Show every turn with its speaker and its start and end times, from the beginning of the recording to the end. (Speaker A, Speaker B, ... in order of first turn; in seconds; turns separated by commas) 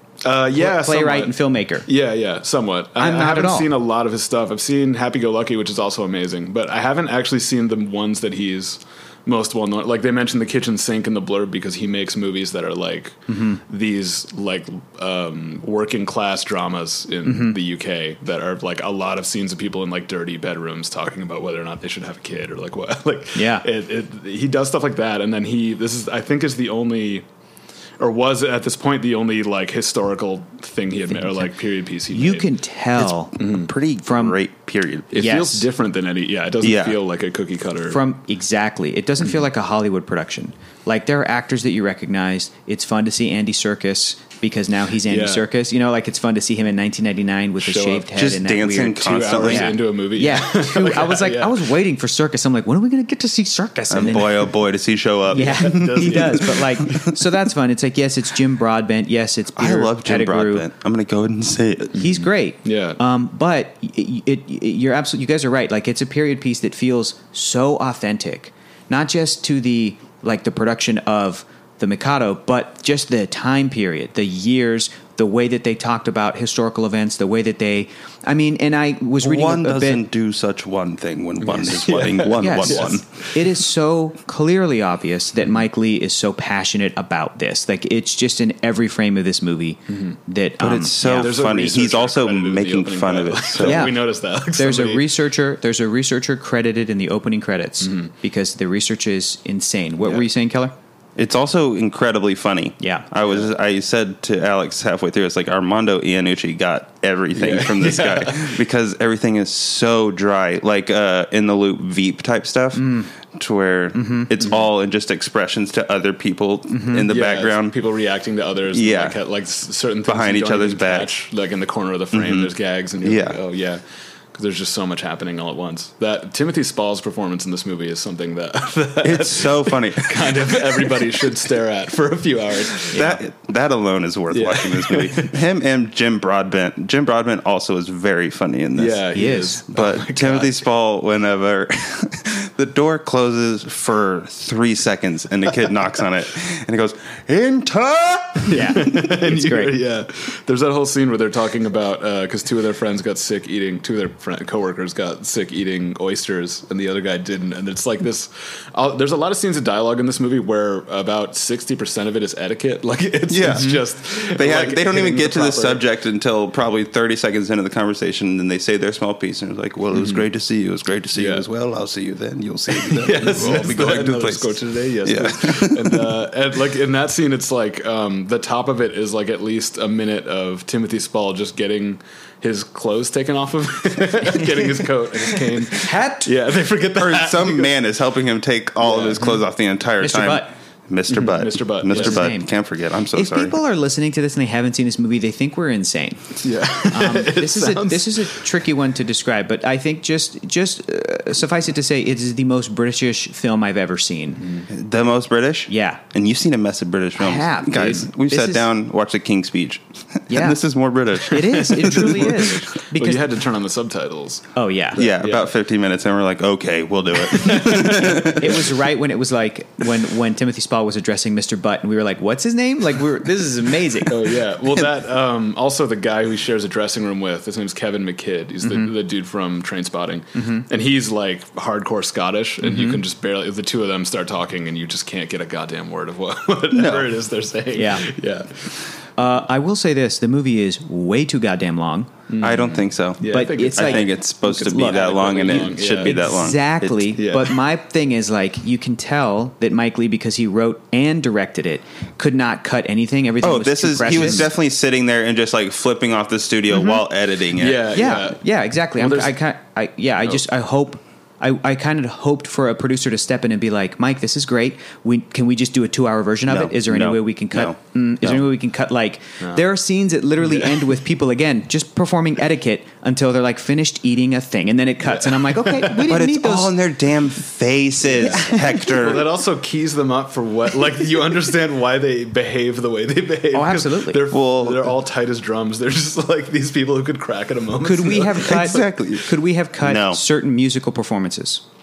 Speaker A: 0.2-1.3, Speaker B: 0.5-1.9, Speaker A: 1.9-27.2, Speaker B: 3.0-3.7, Speaker B: 13.3-13.6, Speaker B: 17.2-17.6, Speaker B: 23.3-23.6, Speaker A: 28.0-32.5, Speaker B: 32.1-33.4, Speaker C: 33.0-35.1, Speaker A: 33.4-33.7, Speaker B: 34.0-34.4, Speaker A: 35.1-38.0, Speaker B: 35.1-35.7, Speaker C: 36.6-37.0, Speaker B: 37.9-54.5, Speaker A: 45.1-45.4, Speaker A: 47.6-48.1, Speaker C: 48.1-49.8, Speaker A: 49.0-51.7, Speaker C: 53.9-57.1, Speaker A: 55.3-56.9, Speaker B: 55.3-60.7, Speaker C: 59.5-61.9, Speaker B: 61.9-80.0, Speaker A: 62.6-63.0, Speaker C: 79.2-83.0, Speaker A: 81.4-83.4, Speaker B: 82.3-91.3, Speaker A: 89.9-90.2, Speaker C: 90.6-93.9, Speaker A: 91.0-95.0, Speaker B: 93.6-100.7, Speaker A: 97.8-98.1, Speaker C: 101.2-117.8, Speaker B: 102.8-103.1, Speaker A: 107.3-108.6, Speaker B: 112.8-113.1, Speaker B: 113.9-114.3, Speaker B: 116.7-117.1, Speaker A: 117.1-123.8, Speaker C: 118.7-119.2, Speaker C: 120.0-121.1, Speaker C: 122.1-122.5, Speaker C: 123.0-123.4, Speaker A: 124.3-133.2, Speaker C: 129.0-131.1, Speaker C: 132.9-139.1, Speaker A: 134.3-135.3, Speaker A: 138.8-140.6, Speaker B: 139.1-139.6, Speaker C: 139.7-148.7, Speaker B: 148.5-149.8, Speaker A: 148.5-165.8, Speaker C: 163.3-176.2, Speaker B: 163.5-163.8, Speaker A: 169.9-170.2, Speaker A: 171.1-171.4, Speaker A: 172.7-187.7, Speaker B: 184.4-186.3, Speaker C: 187.0-193.6, Speaker A: 188.8-189.4, Speaker B: 190.0-190.5, Speaker A: 191.1-192.3, Speaker B: 191.9-192.5, Speaker B: 193.1-204.6, Speaker A: 196.4-198.4, Speaker C: 204.7-212.2, Speaker B: 205.7-206.0, Speaker B: 207.2-208.7, Speaker B: 210.3-210.6, Speaker B: 211.2-213.3, Speaker A: 211.5-215.5, Speaker B: 214.5-215.0, Speaker C: 214.9-218.6, Speaker A: 217.2-218.6, Speaker B: 217.9-224.3, Speaker A: 224.1-238.7, Speaker B: 228.6-228.9, Speaker B: 230.3-230.6, Speaker B: 232.6-233.0, Speaker C: 236.7-237.1, Speaker B: 237.7-238.1, Speaker B: 239.2-242.1, Speaker A: 242.3-246.4, Speaker C: 242.4-247.1, Speaker B: 243.3-254.5, Speaker A: 247.2-247.6, Speaker C: 253.4-258.0, Speaker A: 254.1-254.4, Speaker B: 256.7-257.0, Speaker A: 257.5-258.4, Speaker B: 257.9-276.7, Speaker A: 258.9-259.3, Speaker C: 266.5-268.4, Speaker A: 270.5-270.8, Speaker A: 275.1-276.1, Speaker C: 276.1-279.3, Speaker B: 278.2-278.9, Speaker A: 278.2-288.8, Speaker B: 283.5-284.2, Speaker C: 284.3-284.9, Speaker B: 287.8-291.6, Speaker C: 288.5-290.2